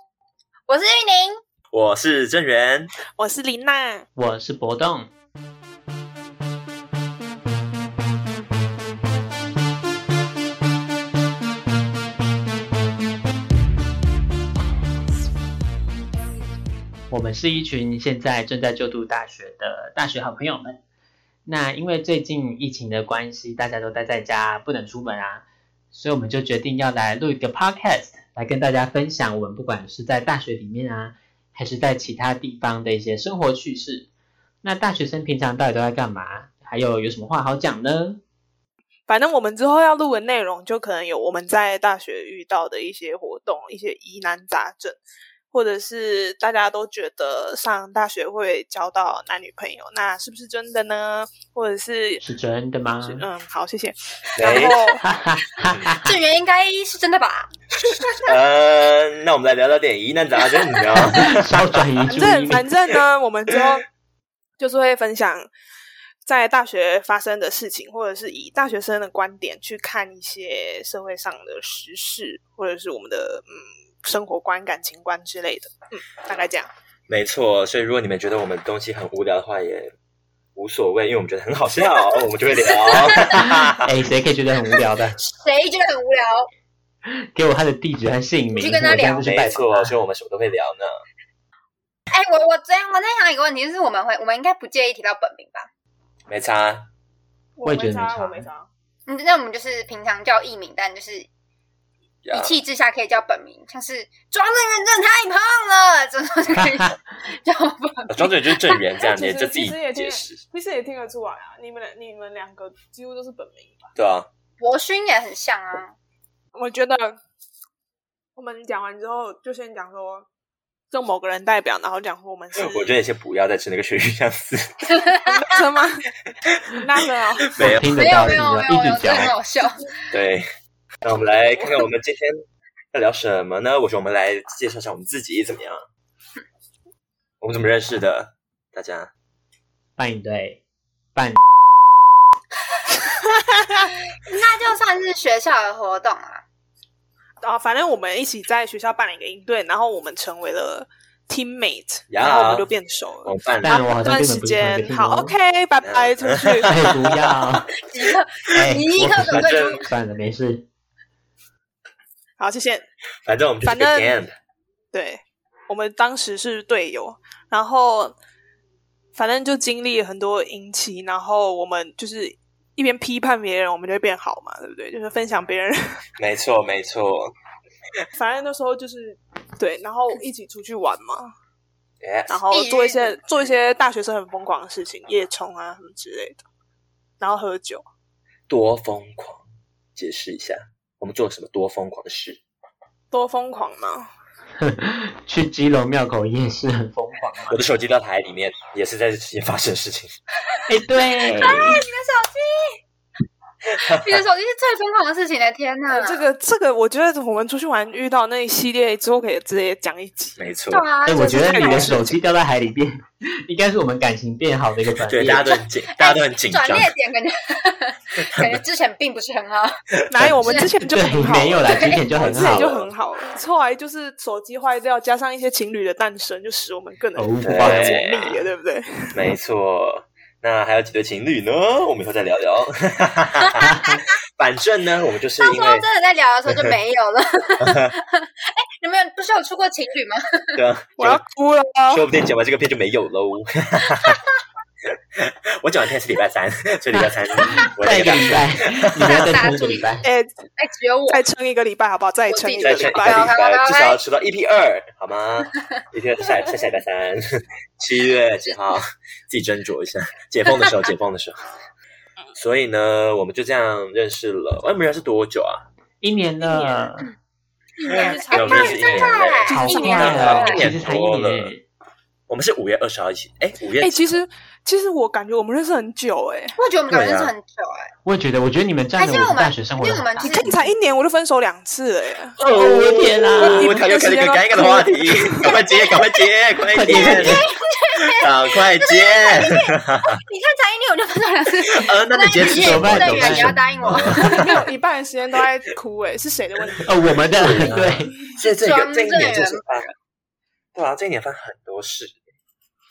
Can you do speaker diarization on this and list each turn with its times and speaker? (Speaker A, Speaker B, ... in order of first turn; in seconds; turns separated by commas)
Speaker A: 0.7-1.4, Speaker B: 1.7-2.9, Speaker C: 3.2-4.0, Speaker D: 4.2-5.1, Speaker D: 17.1-20.8, Speaker D: 21.5-34.1, Speaker D: 34.6-38.2, Speaker C: 39.1-45.0, Speaker C: 45.5-52.2, Speaker D: 52.2-53.2, Speaker C: 53.0-55.0, Speaker B: 54.4-54.8, Speaker A: 54.5-54.8, Speaker D: 55.0-56.2, Speaker B: 55.6-55.9, Speaker A: 56.0-57.5, Speaker B: 58.2-61.6, Speaker D: 61.1-62.6, Speaker C: 62.1-63.9, Speaker C: 64.6-65.5, Speaker C: 66.2-76.7, Speaker B: 77.1-79.9, Speaker B: 80.6-83.9, Speaker D: 83.8-85.2, Speaker A: 84.8-86.5, Speaker D: 87.3-89.9, Speaker A: 88.5-89.3, Speaker B: 89.2-91.0, Speaker A: 92.1-95.7, Speaker B: 96.3-96.9, Speaker C: 97.6-98.7, Speaker D: 97.6-98.5, Speaker A: 99.1-101.3, Speaker B: 102.2-102.6, Speaker A: 102.3-108.8, Speaker B: 108.1-110.4, Speaker C: 109.0-113.9, Speaker B: 114.0-114.3, Speaker A: 114.6-116.0, Speaker C: 116.5-117.2, Speaker C: 118.4-120.3, Speaker C: 120.9-122.9, Speaker B: 122.6-124.8, Speaker A: 124.9-125.2, Speaker C: 125.2-126.1, Speaker C: 126.8-127.6, Speaker B: 127.5-128.4, Speaker D: 127.6-129.3, Speaker A: 127.9-129.9, Speaker B: 130.1-130.4, Speaker B: 131.0-132.4, Speaker B: 132.9-135.8, Speaker B: 137.4-139.1, Speaker D: 140.0-140.6, Speaker A: 143.8-146.4, Speaker C: 147.4-156.7, Speaker B: 152.1-152.7, Speaker B: 153.2-153.8, Speaker D: 153.6-155.3, Speaker B: 155.8-157.4, Speaker D: 156.7-157.7, Speaker A: 157.8-159.9, Speaker D: 158.6-160.7, Speaker B: 159.0-159.8, Speaker C: 162.4-162.8, Speaker B: 163.3-164.3, Speaker C: 163.6-164.2, Speaker C: 164.9-168.2, Speaker C: 169.2-175.8, Speaker B: 176.2-177.3, Speaker C: 178.1-181.3, Speaker B: 182.0-182.4, Speaker C: 182.3-186.4, Speaker A: 182.5-183.2, Speaker C: 187.2-187.8, Speaker B: 188.5-189.4, Speaker B: 190.0-192.4, Speaker C: 193.1-194.1, Speaker D: 194.6-197.6, Speaker B: 197.5-200.1, Speaker D: 200.7-201.8, Speaker A: 201.4-202.8, Speaker A: 203.8-206.3, Speaker B: 203.8-204.2, Speaker C: 205.9-210.5, Speaker B: 210.4-210.9, Speaker A: 210.7-212.1, Speaker D: 211.1-215.4, Speaker C: 211.2-212.1, Speaker B: 215.0-216.9, Speaker A: 215.4-219.7, Speaker C: 220.1-229.1, Speaker A: 220.4-220.7, Speaker D: 220.9-222.6, Speaker A: 221.6-222.1, Speaker B: 222.2-222.9, Speaker D: 227.2-227.9, Speaker B: 227.4-228.4, Speaker B: 229.1-233.7, Speaker A: 233.6-234.1, Speaker B: 234.4-235.8, Speaker A: 235.4-240.6, Speaker B: 240.6-241.2, Speaker C: 241.0-242.0, Speaker B: 241.9-244.2, Speaker A: 243.9-244.2, Speaker B: 245.2-249.3, Speaker D: 246.9-250.1, Speaker A: 247.4-247.7, Speaker A: 249.0-250.0, Speaker C: 250.0-250.3, Speaker A: 250.6-251.2, Speaker C: 251.1-253.3, Speaker A: 252.3-254.0, Speaker B: 252.6-257.2, Speaker B: 257.8-261.4, Speaker B: 262.4-265.6, Speaker D: 266.0-267.1, Speaker C: 266.4-266.9, Speaker A: 267.8-270.7, Speaker C: 267.9-270.5, Speaker B: 268.3-271.5, Speaker D: 269.5-271.6, Speaker B: 272.3-274.2, Speaker C: 273.8-276.6, Speaker A: 276.6-277.9, Speaker B: 276.9-277.3, Speaker D: 278.1-280.5, Speaker A: 279.0-280.6, Speaker C: 280.2-282.4, Speaker B: 282.4-287.4, Speaker D: 282.5-283.6, Speaker C: 283.0-285.6, Speaker A: 285.4-286.0, Speaker D: 286.7-287.4, Speaker A: 286.9-294.6, Speaker B: 288.2-290.2, Speaker B: 291.7-294.6, Speaker D: 292.5-294.1, Speaker C: 294.2-297.5, Speaker D: 296.9-298.1, Speaker B: 297.3-299.9, Speaker A: 298.6-299.6, Speaker B: 300.8-302.2